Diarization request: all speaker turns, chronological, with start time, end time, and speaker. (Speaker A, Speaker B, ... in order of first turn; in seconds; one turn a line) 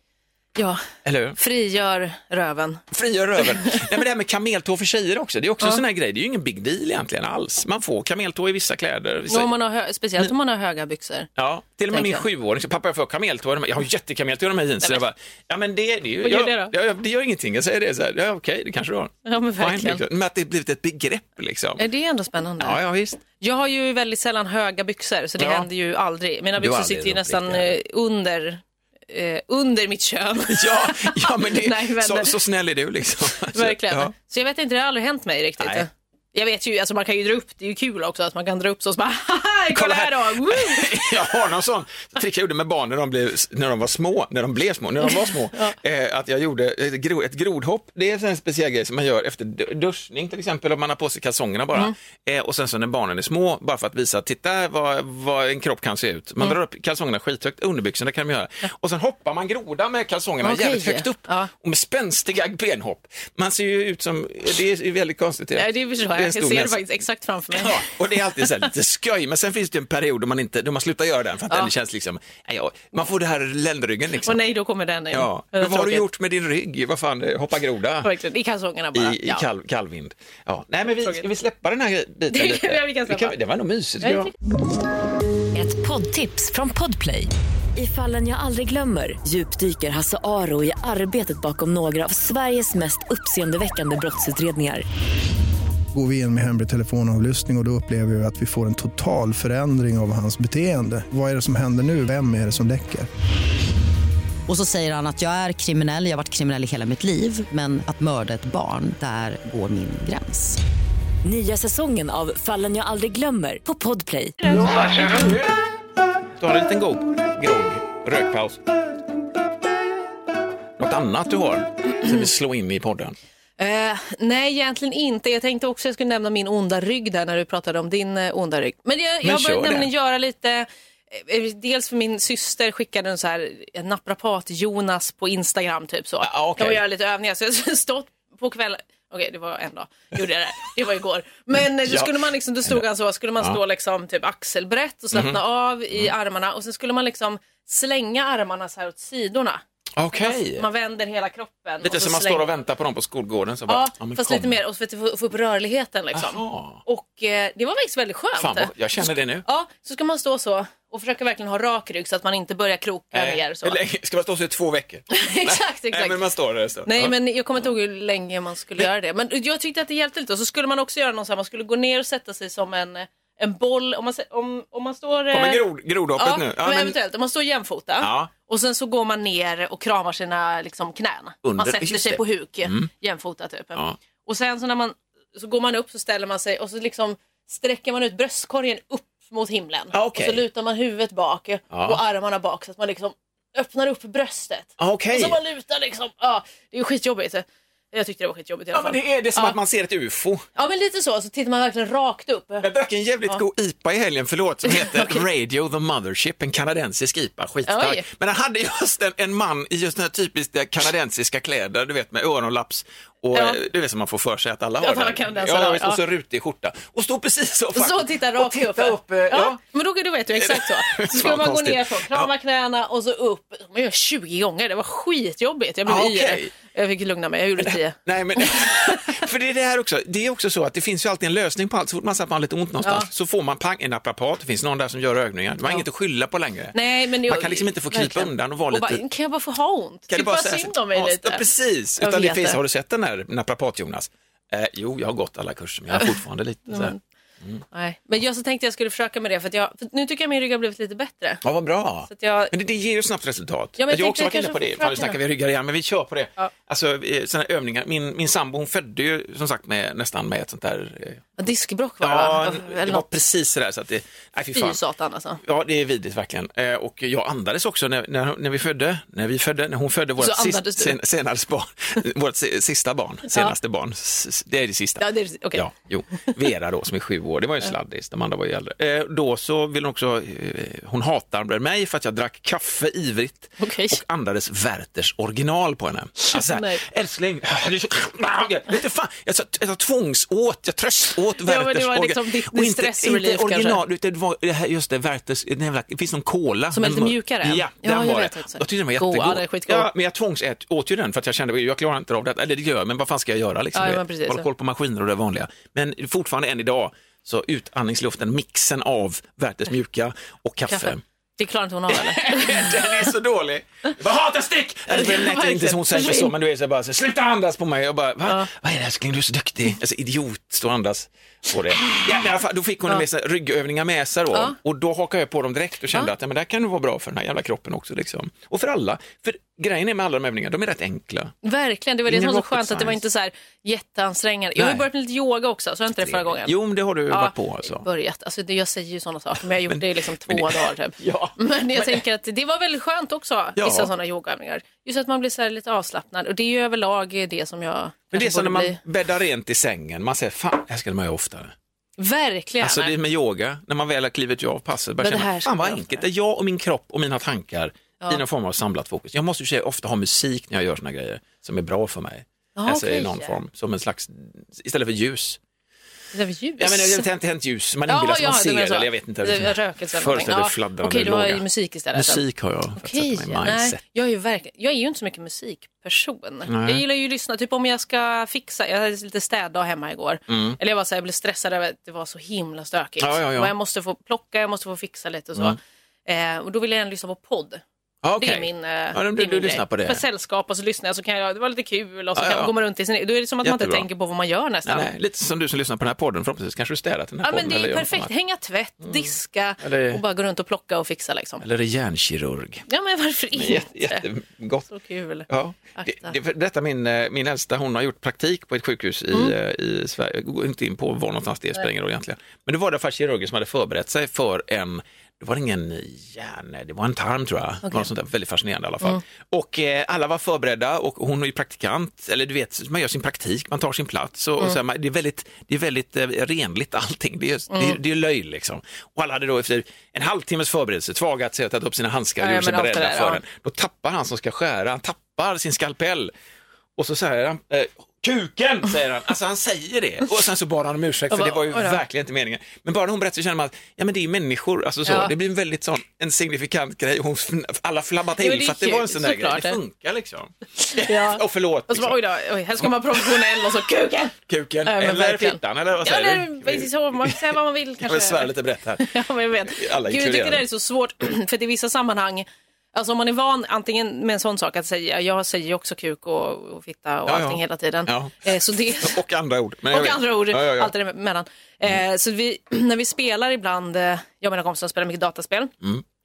Speaker A: 0.6-0.8
Speaker B: 1.0-1.4
Speaker A: 1.4-2.8
Speaker B: 2.9-9.5
Speaker A: 3.4-3.8
Speaker A: 9.3-11.3
Speaker B: 11.3-21.8
Speaker A: 11.9-12.2
Speaker A: 16.2-16.7
Speaker A: 19.2-20.0
Speaker A: 21.8-22.8
Speaker B: 22.6-23.2
Speaker A: 23.3-32.3
Speaker B: 25.4-25.7
Speaker B: 26.6-27.7
Speaker B: 30.5-34.1
Speaker A: 33.5-41.3
Speaker B: 35.6-35.9
Speaker B: 39.7-66.8
Speaker A: 45.0-45.7
Speaker A: 60.4-61.5
Speaker A: 65.5-68.5
Speaker B: 67.5-74.4
Speaker A: 74.2-76.0
Speaker B: 75.1-78.1
Speaker A: 78.0-79.4
Speaker B: 78.9-84.3
Speaker A: 82.3-83.3
Speaker A: 84.0-84.3
Speaker C: 85.5-94.8
Speaker D: 95.9-103.1
Speaker E: 104.5-110.6
Speaker C: 111.2-114.4
Speaker B: 114.5-115.5
Speaker A: 114.5-114.9
Speaker B: 116.4-118.6
Speaker B: 120.8-123.1
Speaker A: 123.6-149.6
Speaker B: 129.2-129.9
Speaker B: 136.2-136.8
Speaker B: 141.8-142.8
Speaker B: 145.1-145.4
Speaker B: 150.0-150.7
Speaker A: 150.1-152.4
Speaker B: 151.8-154.6
Speaker A: 153.7-163.8
Speaker B: 156.1-156.8
Speaker B: 158.3-159.4
Speaker B: 163.1-167.1
Speaker A: 165.1-166.2
Speaker A: 166.8-175.6
Speaker B: 175.3-176.9
Speaker A: 176.2-199.6
Speaker B: 178.0-178.3
Speaker B: 181.4-182.9
Speaker B: 189.9-190.4
Speaker B: 191.7-192.0
Speaker B: 194.8-195.4
Speaker B: 198.7-200.4
Speaker A: 200.6-202.7
Speaker B: 202.6-219.6
Speaker A: 204.6-205.2
Speaker A: 207.7-208.0
Speaker A: 213.3-213.6
Speaker A: 214.8-216.0
Speaker A: 217.7-229.2
Speaker B: 220.3-222.3
Speaker B: 225.8-226.5
Speaker B: 227.6-239.0
Speaker A: 232.8-233.1
Speaker A: 236.7-241.4
Speaker B: 240.1-247.6
Speaker A: 242.0-242.6
Speaker A: 246.7-247.0
Speaker A: 247.7-251.4
Speaker B: 251.4-261.2
Speaker A: 252.1-252.5
Speaker A: 253.8-255.2
Speaker A: 261.4-263.1
Speaker B: 262.0-264.8
Speaker A: 264.5-265.4
Speaker B: 265.4-311.0
Speaker A: 270.2-271.0
Speaker A: 275.0-275.6
Speaker A: 283.6-284.0
Speaker A: 286.3-286.8
Speaker A: 291.4-293.8
Speaker A: 296.7-299.9
Speaker A: 303.7-304.5
Speaker A: 310.7-313.1
Speaker B: 311.9-331.3
Speaker A: 314.9-316.3
Speaker A: 331.4-336.5
Speaker B: 332.1-333.0
Speaker B: 334.6-334.9
Speaker B: 336.0-337.9
Speaker A: 337.1-348.8
Speaker B: 339.7-342.0
Speaker B: 343.6-343.9
Speaker B: 348.1-351.5
Speaker A: 352.0-352.9
Speaker B: 352.6-365.4
Speaker A: 355.0-356.0
Speaker A: 362.6-363.3
Speaker A: 366.1-367.1
Speaker B: 366.6-373.8
Speaker A: 367.9-372.2
Speaker A: 372.8-387.6
Speaker B: 376.5-376.8
Speaker B: 380.3-380.6
Speaker B: 383.0-383.5
Speaker B: 388.0-390.0
Speaker A: 388.2-394.9
Speaker B: 392.1-392.5
Speaker B: 393.4-393.9
Speaker B: 394.6-398.1
Speaker A: 397.2-401.4
Speaker B: 399.6-400.0
Speaker B: 401.4-402.6
Speaker A: 402.7-404.1
Speaker B: 403.3-404.7
Speaker A: 404.7-406.1
Speaker B: 405.3-436.1
Speaker A: 427.5-427.8
Speaker A: 432.2-433.2
Speaker B: 436.8-452.0
Speaker A: 441.1-441.8
Speaker A: 444.9-445.1
Speaker A: 448.2-449.6
Speaker A: 450.6-469.0
Speaker B: 452.6-453.4
Speaker B: 454.3-458.9
Speaker B: 459.4-460.4
Speaker B: 467.1-470.7
Speaker A: 469.7-475.5